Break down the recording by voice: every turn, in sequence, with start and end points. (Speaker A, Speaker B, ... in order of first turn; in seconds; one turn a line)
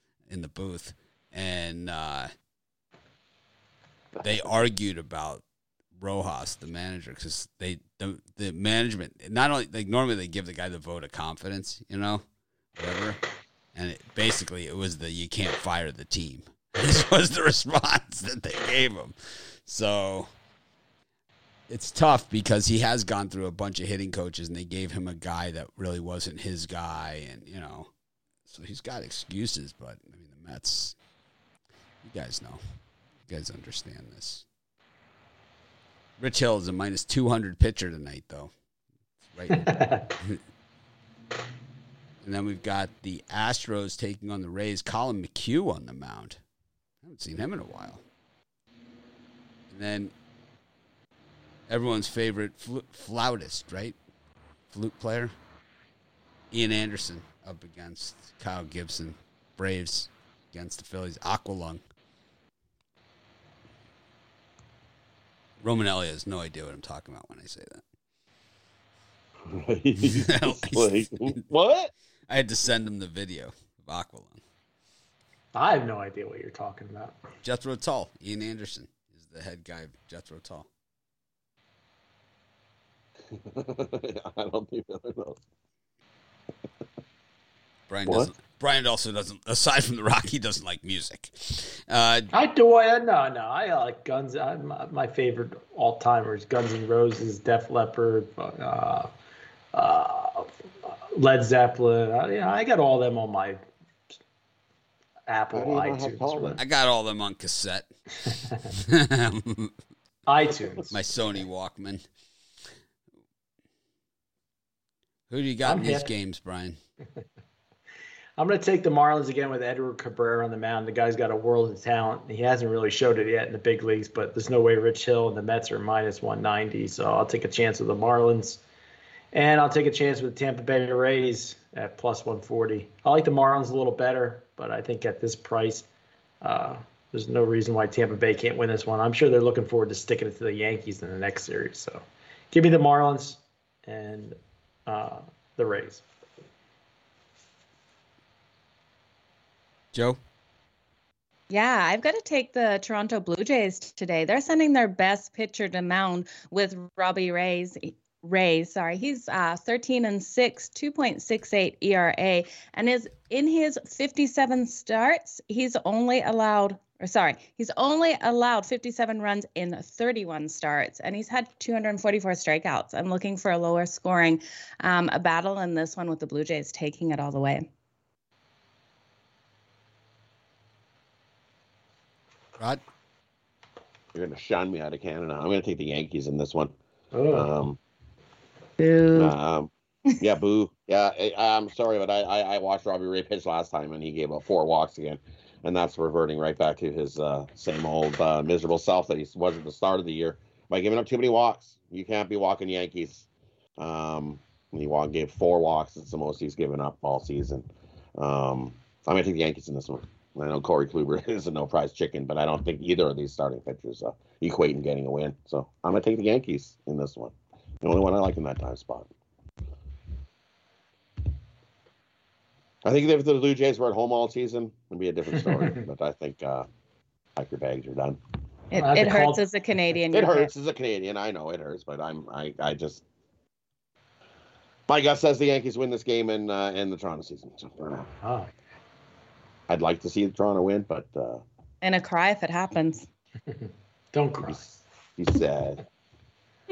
Speaker A: 0.3-2.3
Speaker A: 4.2-5.5
Speaker A: 6.0-12.2
Speaker A: 12.8-13.2
Speaker A: 13.7-20.3
Speaker A: 21.7-27.9
Speaker A: 28.5-31.0
Speaker A: 32.0-32.6
Speaker A: 33.3-34.5
Speaker A: 36.2-38.5
Speaker A: 39.3-40.4
Speaker B: 39.5-40.1
Speaker A: 42.2-46.4
Speaker A: 47.0-48.0
Speaker A: 49.7-50.1
Speaker A: 51.7-54.0
Speaker A: 54.7-55.3
Speaker A: 56.5-61.8
Speaker A: 65.6-67.8
Speaker C: 69.5-71.9
Speaker A: 70.0-71.3
Speaker A: 72.3-74.4
Speaker B: 75.5-77.2
Speaker A: 77.4-80.7
Speaker C: 83.3-85.4
Speaker A: 87.9-92.3
Speaker B: 92.3-99.1
Speaker B: 99.7-103.7
Speaker B: 105.3-106.6
Speaker C: 105.5-106.6
Speaker A: 106.6-107.9
Speaker B: 108.3-108.7
Speaker A: 108.8-109.8
Speaker B: 110.3-110.9
Speaker A: 110.9-112.0
Speaker A: 115.3-116.8
Speaker B: 115.7-116.1
Speaker B: 118.4-128.6
Speaker B: 129.3-135.9
Speaker B: 136.4-146.1
Speaker A: 149.9-150.2
Speaker D: 151.5-177.7
Speaker C: 184.1-186.7
Speaker B: 187.1-187.5
Speaker C: 187.3-187.8
Speaker D: 188.8-189.3
Speaker C: 189.1-203.3
Speaker C: 203.8-219.1
Speaker C: 222.8-226.7
Speaker C: 227.4-228.2
Speaker D: 228.7-230.5
Speaker B: 228.8-229.4
Speaker C: 230.1-233.0
Speaker C: 234.9-238.1
Speaker B: 238.2-238.5
Speaker C: 239.7-241.4
Speaker D: 241.8-243.1
Speaker B: 243.5-244.7
Speaker C: 245.2-245.8